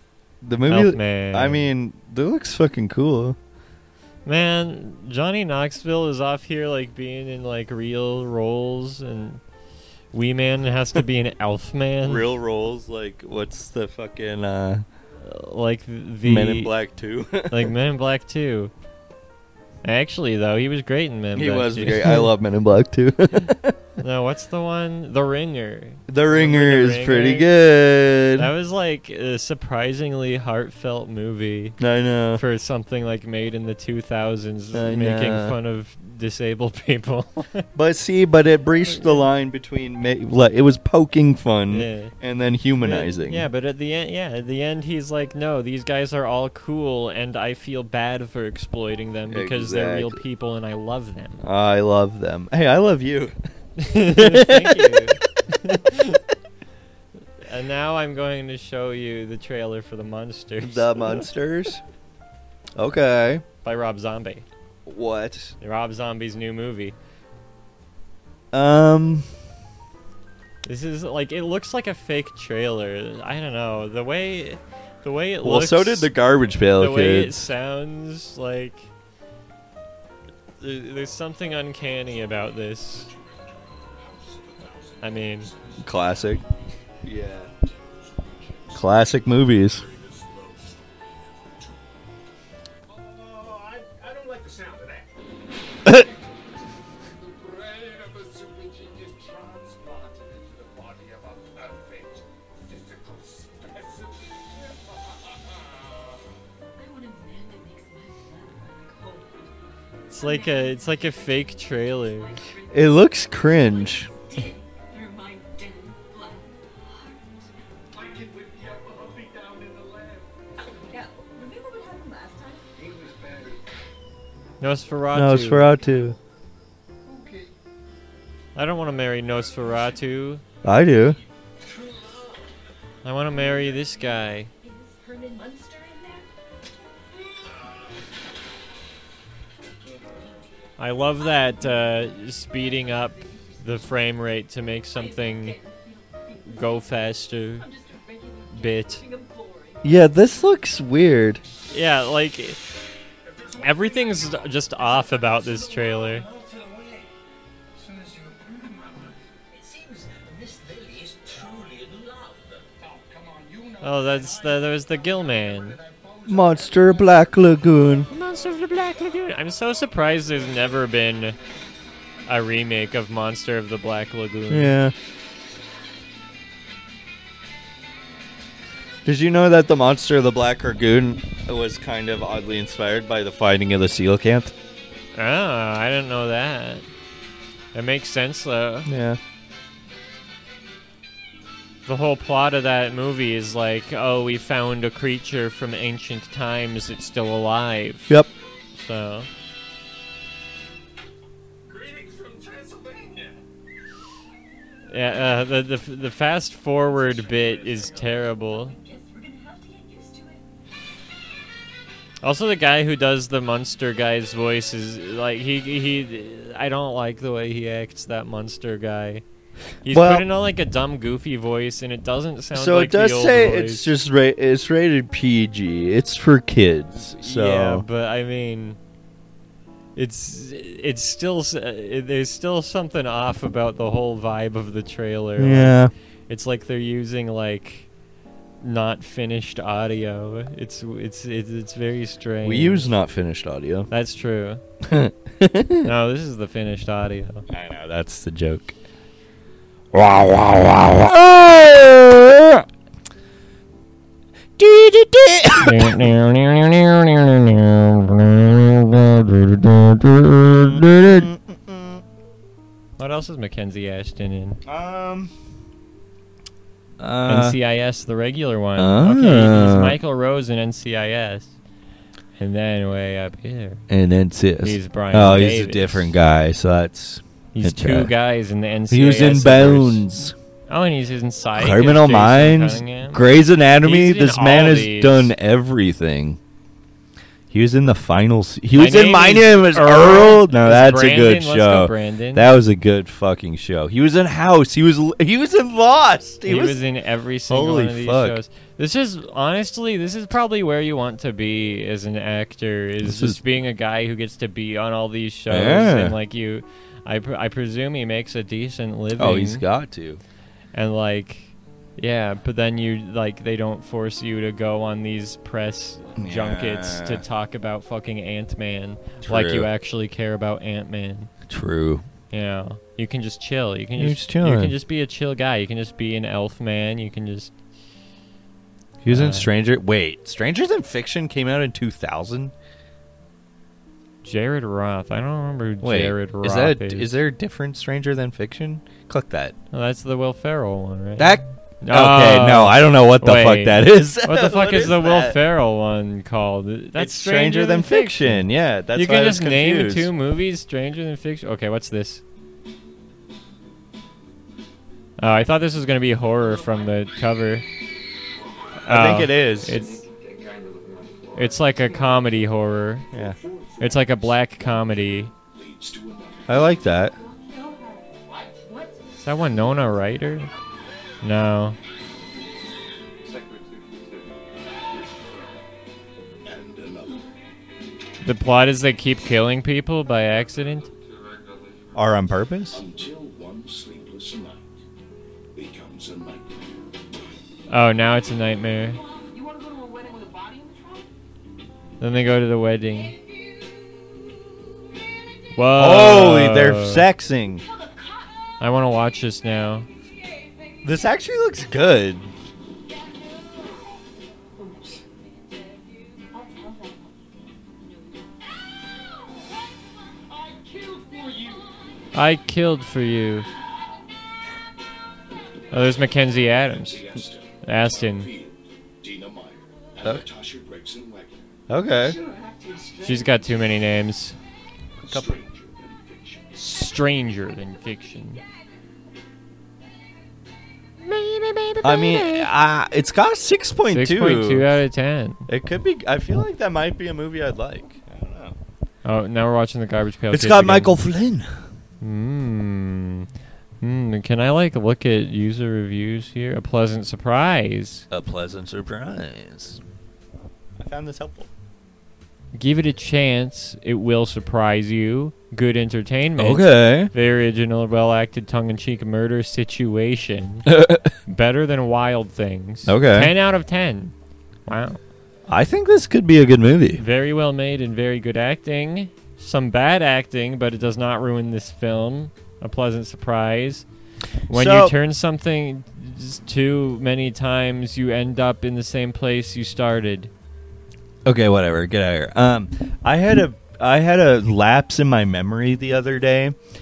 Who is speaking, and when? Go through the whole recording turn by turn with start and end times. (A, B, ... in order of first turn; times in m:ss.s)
0:00.4-0:03.4 A
0:00.7-0:01.7 B
0:04.3-0:09.4 B
0:10.1-0:12.3 B
0:12.0-0:14.8 A
0:15.2-0:16.7 B
0:16.2-0:17.7 A
0:17.5-0:18.7 B
0:19.8-0:22.3 B
0:21.3-0:23.8 A
0:24.0-0:27.5 B
0:26.1-0:28.5 A
0:28.4-0:31.8 B
0:31.8-0:32.4 A
0:32.4-0:37.7 B
0:34.7-0:35.6 A
0:37.8-0:43.5 A
0:38.9-0:39.2 B
0:41.7-0:42.1 B
0:42.8-0:51.4 B
0:49.3-0:50.2 A
0:51.4-0:53.4 A
0:53.8-0:56.2 B
0:54.0-0:55.1 A
0:57.4-1:01.2 B
1:00.6-1:01.8 A
1:02.8-1:03.4 A
1:03.6-1:04.4 B
1:04.9-1:05.5 A
1:05.6-1:07.0 B
1:08.5-1:09.3 A
1:10.6-1:16.1 B
1:15.4-1:17.4 A
1:16.8-1:18.9 B
1:20.6-1:23.1 B
1:24.3-1:24.8 C
1:25.0-1:25.5 B
1:25.8-1:26.4 A
1:27.0-1:27.5 A
1:28.7-1:29.9 A
1:32.9-1:35.1 C
1:37.2-1:45.2 C
1:46.8-1:57.5 D
1:50.1-1:52.4 B
1:52.7-1:54.1 A
1:58.0-2:00.3 C
2:00.7-2:02.7 D
2:02.8-2:03.6 C
2:04.6-2:05.7 B
2:05.1-2:06.2 A
2:07.1-2:07.5 C
2:08.6-2:10.4 B
2:10.6-2:11.2 A
2:13.0-2:14.5 B
2:14.6-2:16.3 D
2:20.8-2:25.6 B
2:21.2-2:24.0 D
2:24.9-2:27.0 D
2:26.5-2:27.7 B
2:27.6-2:29.9 D
2:28.5-2:29.0 B
2:29.8-2:31.4 A
2:31.7-2:32.6 B
2:33.6-2:36.3 B
2:36.4-2:37.0 C
2:37.9-2:38.4 C
2:43.0-2:44.7 C
2:43.8-2:45.8 B
2:45.8-2:47.1 C
2:46.3-2:48.1 A
2:48.1-2:51.4 B
2:52.3-2:54.7 B
2:54.5-2:54.9 A
2:59.0-3:04.5 A
3:05.2-3:06.9 B
3:07.7-3:08.9 B
3:08.9-3:09.2 A
3:11.9-3:18.1 B
3:18.8-3:19.3 B
3:21.7-3:23.4 C
3:24.9-3:28.8 B
3:27.1-3:30.5 D
3:32.2-3:39.2 B
3:39.8-3:43.9 B
3:39.9-3:40.3 A
3:42.5-3:47.8 A
3:47.2-3:48.8 B
3:50.0-3:55.8 B
3:55.4-3:55.9 A
3:56.3-3:57.9 B
3:58.6-4:02.9 B
4:02.4-4:03.9 A
4:03.9-4:04.6 B
4:04.8-4:05.9 A
4:05.8-4:07.4 B
4:07.5-4:08.8 A
4:09.9-4:12.6 A
4:14.6-4:16.0 A
4:15.6-4:21.2 B
4:20.6-4:22.0 A
4:23.0-4:24.6 B
4:24.6-4:25.3 A
4:27.0-4:27.6 A
4:27.3-4:31.5 B
4:28.8-4:30.0 A
4:32.4-4:33.8 B
4:33.9-4:38.1 A
4:34.6-4:36.1 B
4:37.5-4:40.1 B
4:38.9-4:40.3 A
4:40.7-4:45.3 B
4:41.6-4:46.4 A
4:47.5-4:56.8 A
4:48.7-4:52.5 B
4:56.5-5:09.6 B
4:57.5-4:58.4 A
5:03.0-5:03.4 A
5:05.5-5:06.2 A
5:09.2-5:10.2 A
5:10.7-5:21.3 B
5:16.2-5:17.2 A
5:19.2-5:19.7 A
5:21.5-5:22.0 A
5:22.3-5:27.5 B
5:24.0-5:24.8 A
5:29.0-5:32.5 A
5:29.1-5:29.5 B
5:34.2-5:37.1 B
5:35.8-5:39.6 A
5:39.7-5:52.2 B
5:41.2-5:45.4 A
5:47.0-5:50.1 A
5:55.2-5:57.6 B
5:58.8-6:00.1 B
5:58.9-5:59.8 A
6:01.3-6:03.1 B
6:03.1-6:03.4 A
6:03.8-6:05.3 B
6:06.5-6:07.2 A
6:07.2-6:09.0 D
6:09.2-6:10.5 B
6:11.2-6:11.8 B
6:13.3-6:14.2 C
6:18.2-6:20.9 B
6:21.9-6:22.8 A
6:27.7-6:29.0 B
6:29.0-6:31.1 D
6:32.0-6:33.1 B
6:33.4-6:34.0 D
6:35.5-6:37.0 B
6:35.8-6:37.6 A
6:37.6-6:38.6 D
6:38.6-6:39.9 B
6:39.9-6:41.0 D
6:40.8-6:42.3 A
6:42.9-6:48.4 D
6:51.1-6:51.5 C
6:52.1-6:53.5 B
6:55.7-6:58.3 B
7:00.0-7:00.3 A
7:01.7-7:02.2 A
7:02.0-7:03.4 D
7:03.0-7:04.4 B
7:05.0-7:05.4 A
7:06.5-7:08.4 B
7:11.1-7:12.4 B
7:11.8-7:14.7 A
7:13.9-7:15.5 B
7:15.5-7:18.6 A
7:19.0-7:21.0 B
7:20.3-7:21.6 A
7:22.0-7:23.3 B
7:23.8-7:28.1 B
7:28.1-7:29.8 A
7:30.8-7:31.5 A
7:32.5-7:40.7 B
7:36.4-7:37.1 A
7:40.7-7:41.1 A
7:41.3-7:44.1 B
7:42.9-7:43.3 A
7:44.7-7:45.0 B
7:45.5-7:47.0 A
7:47.0-7:53.9 B
7:54.5-7:55.0 A
7:54.5-8:00.3 B
8:01.3-8:06.6 A